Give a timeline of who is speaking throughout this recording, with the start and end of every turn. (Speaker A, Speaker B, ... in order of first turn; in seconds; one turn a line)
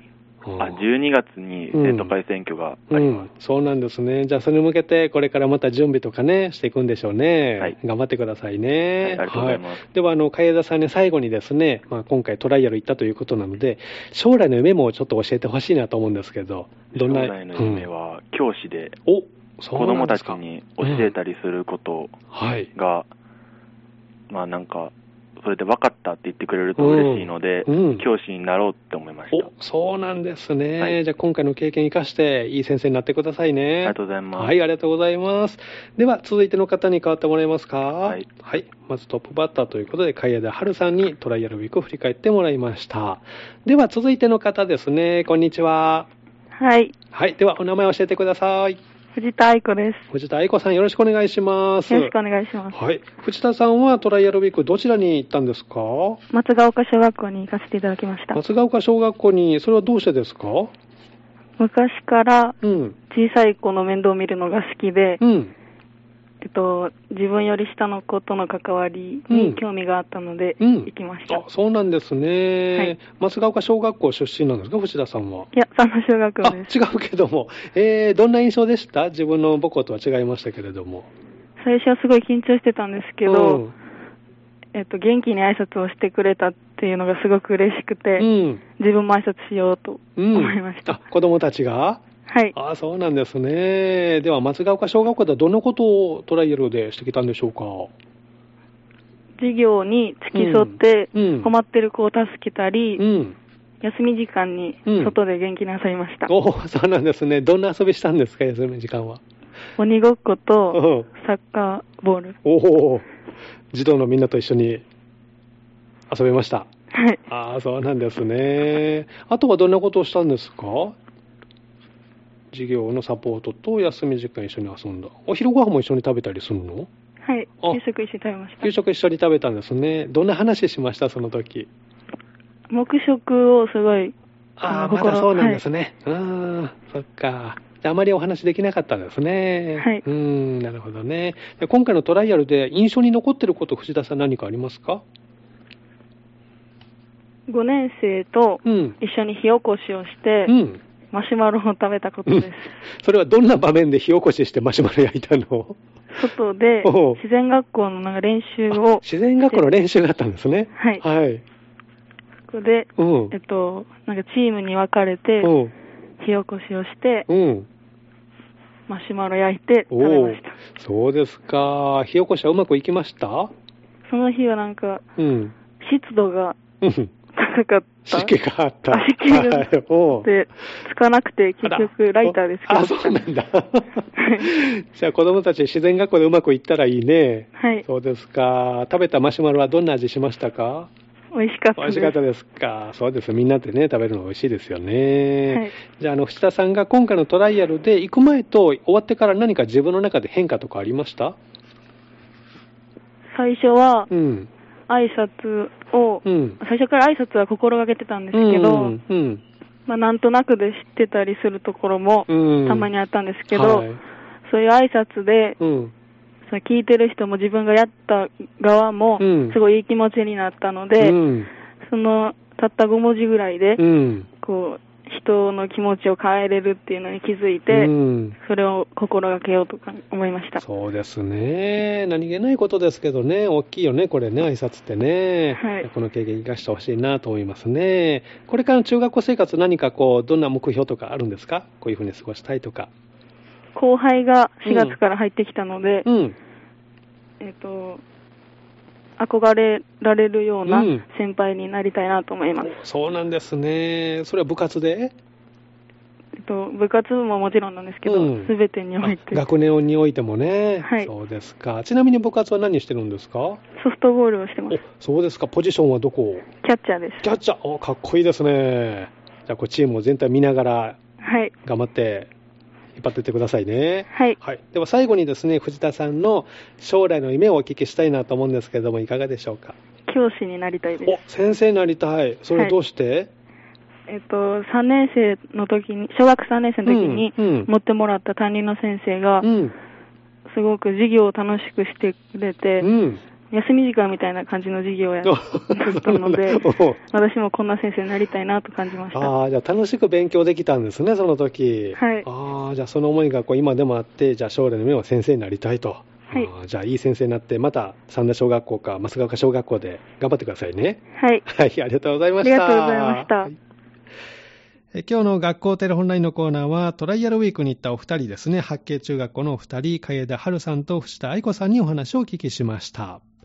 Speaker A: 0.4-0.8
Speaker B: 0.6-3.2
Speaker A: 1.7-2.1
Speaker A: 2.9-17.9
Speaker B: 9.0-9.8
Speaker B: 16.9-19.0
Speaker A: 19.1-21.1
Speaker B: 19.7-22.2
Speaker A: 22.3-22.7
Speaker B: 22.7-23.1
Speaker B: 24.3-29.5
Speaker A: 26.8-28.1
Speaker A: 29.3-46.1
Speaker B: 33.8-34.6
Speaker C: 46.5-46.9
Speaker A: 47.1-48.8
Speaker C: 49.1-50.0
Speaker A: 50.1-52.1
Speaker C: 51.9-52.8
Speaker A: 52.7-56.2
Speaker C: 56.3-58.4
Speaker A: 58.3-60.7
Speaker C: 61.6-62.6
Speaker A: 62.6-63.0
Speaker C: 63.1-65.2
Speaker A: 65.2-65.5
Speaker C: 66.4-71.4
Speaker A: 69.3-69.6
Speaker A: 70.6-75.5
Speaker C: 75.5-76.7
Speaker A: 76.4-81.1
Speaker C: 81.6-83.6
Speaker A: 83.2-83.7
Speaker C: 84.7-91.0
Speaker A: 88.2-88.6
Speaker A: 90.2-92.0
Speaker C: 92.3-92.5
Speaker A: 92.5-97.9
Speaker C: 99.4-103.0
Speaker A: 100.3-101.5
Speaker A: 103.0-103.4
Speaker C: 103.8-106.3
Speaker A: 104.9-105.2
Speaker A: 106.3-109.2
Speaker C: 109.8-112.4
Speaker A: 110.7-111.1
Speaker A: 112.4-113.1
Speaker A: 113.7-114.8
Speaker A: 116.1-116.7
Speaker C: 116.9-117.2
Speaker A: 117.3-121.0
Speaker A: 122.5-126.9
Speaker C: 127.2-128.7
Speaker A: 128.6-131.7
Speaker C: 132.7-134.1
Speaker A: 134.6-145.0
Speaker C: 134.7-135.6
Speaker C: 139.8-140.0
Speaker C: 147.5-150.5
Speaker A: 148.6-149.0
Speaker A: 150.5-150.8
Speaker C: 151.1-152.7
Speaker A: 153.0-155.8
Speaker C: 156.1-159.6
Speaker A: 156.8-157.2
Speaker A: 158.7-161.4
Speaker C: 160.8-161.0
Speaker C: 162.5-165.5
Speaker A: 163.0-163.3
Speaker A: 165.4-165.7
Speaker C: 166.2-167.3
Speaker A: 167.3-167.7
Speaker C: 168.9-170.6
Speaker A: 169.9-173.5
Speaker C: 174.1-175.0
Speaker A: 175.2-175.6
Speaker C: 175.8-176.6
Speaker A: 176.8-177.1
Speaker C: 177.3-178.3
Speaker A: 178.1-180.3
Speaker C: 178.9-183.2
Speaker A: 181.6-190.9
Speaker C: 184.2-184.5
Speaker C: 187.6-187.9
Speaker C: 191.3-192.2
Speaker A: 191.8-201.4
Speaker C: 203.3-204.1
Speaker A: 204.1-204.5
Speaker C: 204.9-209.0
Speaker A: 206.2-206.6
Speaker A: 208.3-209.4
Speaker C: 209.9-213.9
Speaker A: 212.3-212.9
Speaker A: 213.5-214.0
Speaker C: 214.5-215.6
Speaker A: 215.6-215.9
Speaker C: 216.5-221.2
Speaker A: 219.2-219.6
Speaker A: 221.0-221.5
Speaker C: 221.8-223.8
Speaker A: 223.8-224.3
Speaker C: 224.4-230.6
Speaker A: 227.7-228.4
Speaker A: 230.6-242.9
Speaker C: 235.5-235.9
Speaker C: 243.7-246.1
Speaker A: 244.7-245.0
Speaker A: 246.1-246.4
Speaker C: 247.4-248.0
Speaker C: 249.2-252.8
Speaker A: 250.7-251.1
Speaker A: 252.6-255.2
Speaker C: 256.4-259.4
Speaker A: 258.1-263.6
Speaker C: 260.8-261.1
Speaker C: 263.8-264.8
Speaker A: 264.7-266.5
Speaker C: 266.6-267.3
Speaker A: 267.2-271.0
Speaker C: 271.2-271.5
Speaker A: 271.6-272.3
Speaker A: 273.0-279.8
Speaker C: 274.1-274.4
Speaker C: 280.1-281.2
Speaker A: 281.1-283.3
Speaker C: 284.1-289.5
Speaker A: 286.9-287.7
Speaker A: 289.4-289.8
Speaker C: 290.5-292.9
Speaker A: 292.8-293.2
Speaker C: 293.5-299.3
Speaker A: 295.2-297.0
Speaker A: 299.1-313.6
Speaker C: 301.9-302.3
Speaker C: 311.1-311.4
Speaker C: 312.4-313.5
Speaker A: 314.9-323.2